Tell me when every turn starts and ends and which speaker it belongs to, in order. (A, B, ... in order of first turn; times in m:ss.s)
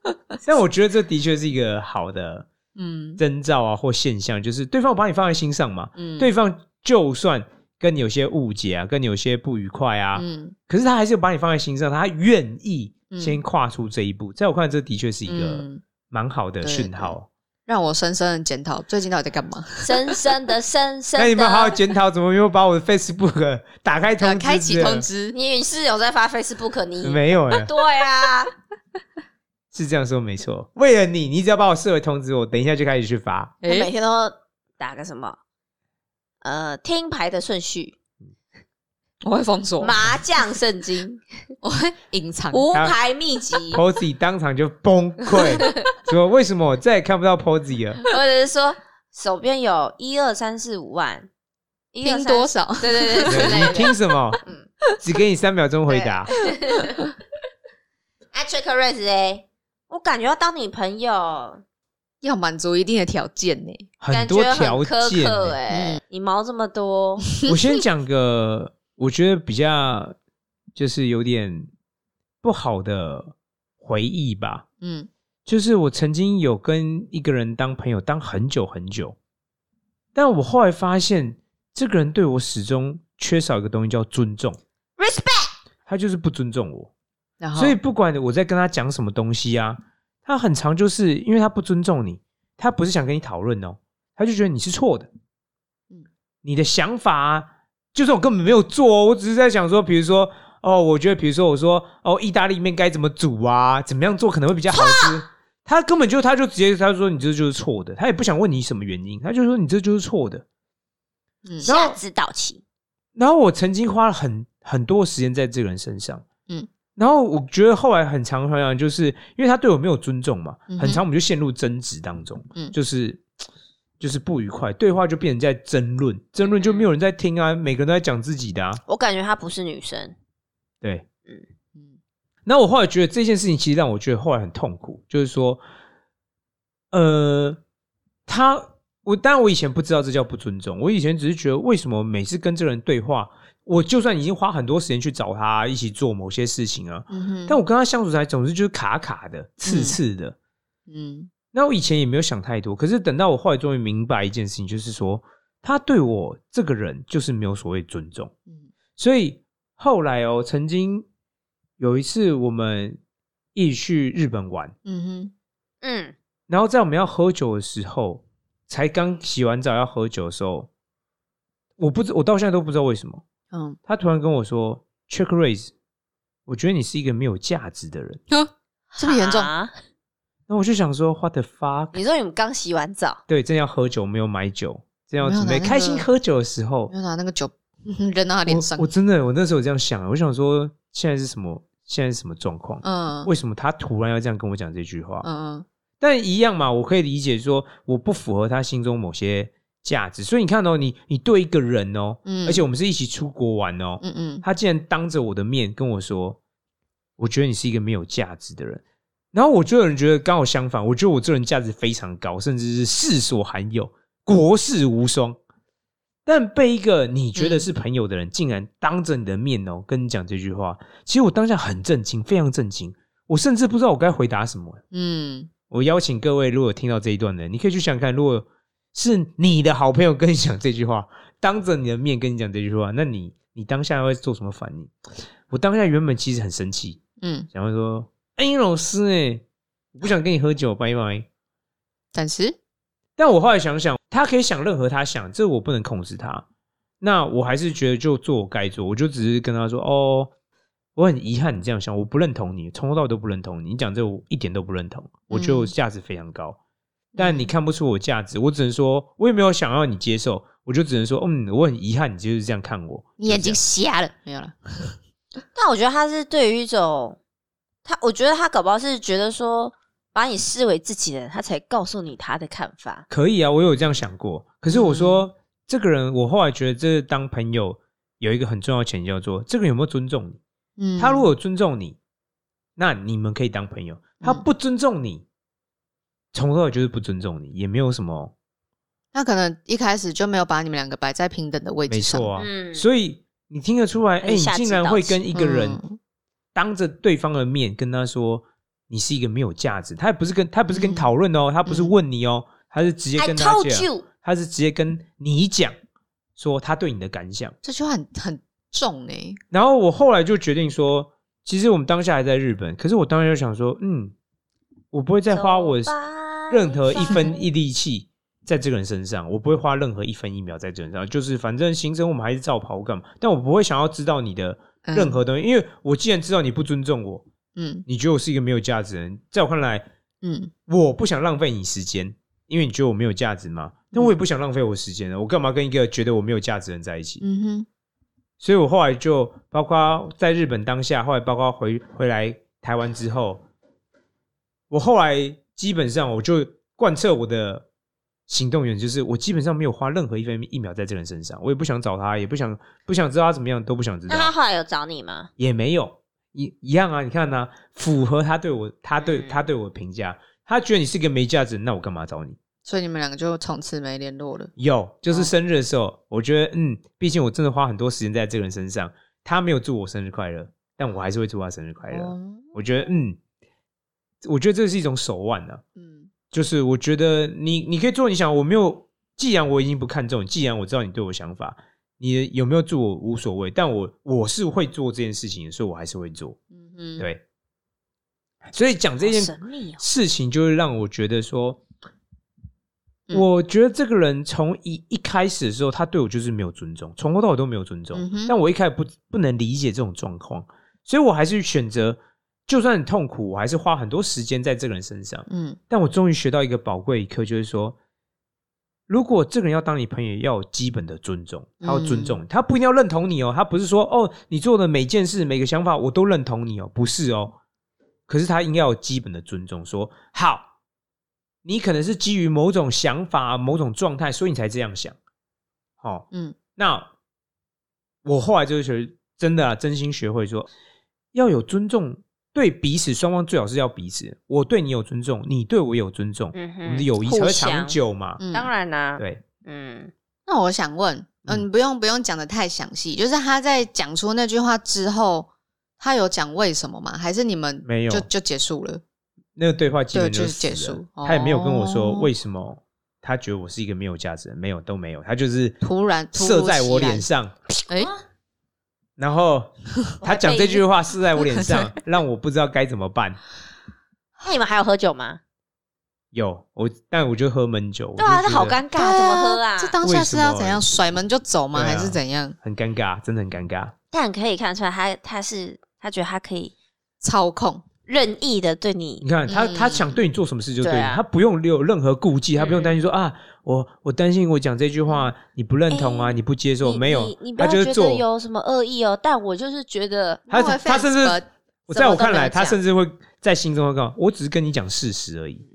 0:00.4-0:02.5 A
0:02.8-0:03.2 B
0:03.2-0:17.3 A
0:06.0-0:06.3 B
0:10.1-0:10.5 B
0:13.1-0:13.4 B
0:15.2-0:15.8 B
0:16.6-0:17.1 B
0:17.7-0:20.0 B
0:19.8-0:21.8 C
0:21.2-0:25.1 A
0:24.2-0:25.3 B
0:25.3-0:28.5 C
0:27.0-0:27.7 A
0:29.7-0:33.6 A
0:33.6-0:33.9 B
0:33.6-0:35.4 C
0:36.4-0:37.9 C
0:39.2-0:40.0 B
0:39.8-0:41.2 C
0:41.6-0:42.6 B
0:42.5-0:43.8 C
0:43.7-0:48.0 A
0:48.1-0:51.3 C
0:51.9-0:54.7 C
0:52.0-0:54.0 B
0:53.3-0:54.4 A
0:55.0-0:56.3 A
0:55.9-0:57.0 C
0:56.7-0:57.1 B
0:58.3-1:01.6 C
1:02.2-1:03.9 B
1:04.0-1:05.6 A
1:04.1-1:07.3 C
1:05.7-1:06.0 B
1:07.4-1:10.2 A
1:10.8-1:11.7 A
1:12.4-1:14.6 A
1:14.8-1:15.1 B
1:15.4-1:19.2 A
1:20.1-1:24.6 A
1:25.0-1:25.5 C
1:25.8-1:26.9 A
1:27.4-1:27.8 B
1:27.6-1:35.1 A
1:36.4-1:50.4 A
1:44.7-1:45.2 C
1:51.4-1:51.7 B
1:51.6-1:52.6 C
1:51.7-1:51.9 A
1:53.2-1:56.2 A
1:57.0-2:03.2 A
2:00.7-2:01.0 B
2:04.0-2:08.8 A
2:06.4-2:06.9 C
2:08.9-2:10.1 C
2:12.4-2:15.6 A
2:16.9-2:17.6 A
2:18.3-2:30.4 A
2:27.1-2:27.6 B
2:29.6-2:30.0 B
2:30.9-2:31.3 B
2:31.5-2:38.3 A
2:39.0-2:41.0 A
2:41.8-2:43.0 A
2:43.5-2:44.7 A
2:44.8-2:45.3 B
2:45.8-2:46.1 C
2:46.5-2:50.7 A
2:51.8-2:53.2 A
2:53.5-2:53.8 B
2:53.8-2:55.7 A
2:56.5-2:58.2 A
2:58.3-2:59.5 B
2:58.9-2:59.7 C
3:00.5-3:02.0 A
3:01.9-3:03.2 C
3:03.3-3:06.9 A
3:05.2-3:06.1 B
3:06.9-3:08.9 B
3:08.4-3:15.2 A
3:12.8-3:13.3 B
3:15.2-3:15.6 B
3:16.0-3:26.4 A
3:22.2-3:22.6 B
3:24.0-3:24.4 B
3:27.2-3:28.8 A
3:29.3-3:35.4 A
3:36.2-3:44.8 A
3:37.4-3:37.6 B
3:44.9-3:45.5 B
3:45.7-3:54.9 A
3:55.5-3:57.0 A
3:57.2-3:57.5 B
3:57.5-3:59.4 A
3:59.9-4:01.3 A
4:02.1-4:02.6 B
4:03.2-4:06.4 A
4:07.0-4:10.3 A
4:11.0-4:16.6 A
4:15.3-4:15.7 B
4:17.1-4:17.5 B
4:17.2-4:23.6 A
4:23.2-4:25.0 B
4:25.5-4:27.2 C
4:27.8-4:33.0 C
4:33.1-4:40.4 A
4:34.7-4:35.2 B
4:40.8-4:41.3 B
4:41.0-4:42.0 A
4:42.8-4:45.2 A
4:46.3-4:48.3 A
4:49.1-4:52.3 B
4:51.9-4:55.8 A
4:52.4-4:52.8 C
4:54.2-4:55.2 C
4:55.3-4:56.0 B
4:56.5-5:05.7 A
5:00.7-5:01.1 B
5:01.6-5:01.9 B
5:03.2-5:04.0 C
5:06.4-5:07.6 A
5:07.6-5:09.4 B
5:09.5-5:14.1 A
5:14.9-5:15.9 A
5:15.3-5:17.4 C
5:16.5-5:27.2 A
5:24.8-5:25.2 B
5:27.6-5:27.8 B
5:27.8-5:29.8 A
5:30.2-5:30.5 B
5:30.7-5:37.2 A
5:37.2-5:37.6 B
5:38.4-5:43.4 A
5:44.7-5:47.6 A
5:48.3-5:54.3 A
5:54.1-5:55.3 C
5:55.4-6:02.4 A
5:59.0-5:59.4 C
6:02.6-6:04.5 B
6:04.6-6:13.2 A
6:11.9-6:12.6 B
6:14.2-6:15.6 A
6:15.8-6:16.1 B
6:16.3-6:26.4 A
6:26.5-6:27.0 B
6:28.5-6:31.6 A
6:29.0-6:29.8 C
6:33.1-6:47.8 A
6:37.9-6:38.4 B
6:45.3-6:45.6 B
6:48.9-6:57.4 A
6:51.6-6:52.2 B
6:58.1-7:00.5 A
7:01.4-7:05.0 A
7:05.8-7:06.9 A
7:08.0-7:10.5 A
7:11.1-7:18.2 A
7:16.3-7:17.8 C
7:18.2-7:18.5 B
7:18.3-7:19.9 C
7:20.2-7:28.8 B
7:27.6-7:28.1 A
7:29.4-7:35.6 A
7:29.9-7:32.1 B
7:35.6-7:37.1 B
7:36.1-7:37.3 A
7:39.0-7:43.2 A
7:40.0-7:40.6 C
7:41.2-7:41.7 B
7:44.2-7:45.2 C
7:46.1-7:48.6 A
7:48.0-7:49.8 C
7:48.7-7:52.4 B
7:49.8-7:50.7 A
7:51.5-7:53.7 A
7:53.9-7:56.5 C
7:57.0-7:57.6 B
7:57.9-7:59.0 C
7:59.0-8:08.0 A
7:59.3-8:00.0 B
8:00.6-8:01.0 C
8:02.4-8:02.8 C
8:05.7-8:10.3 C
8:10.3-8:11.2 B
8:10.3-8:15.4 A
8:11.7-8:12.6 C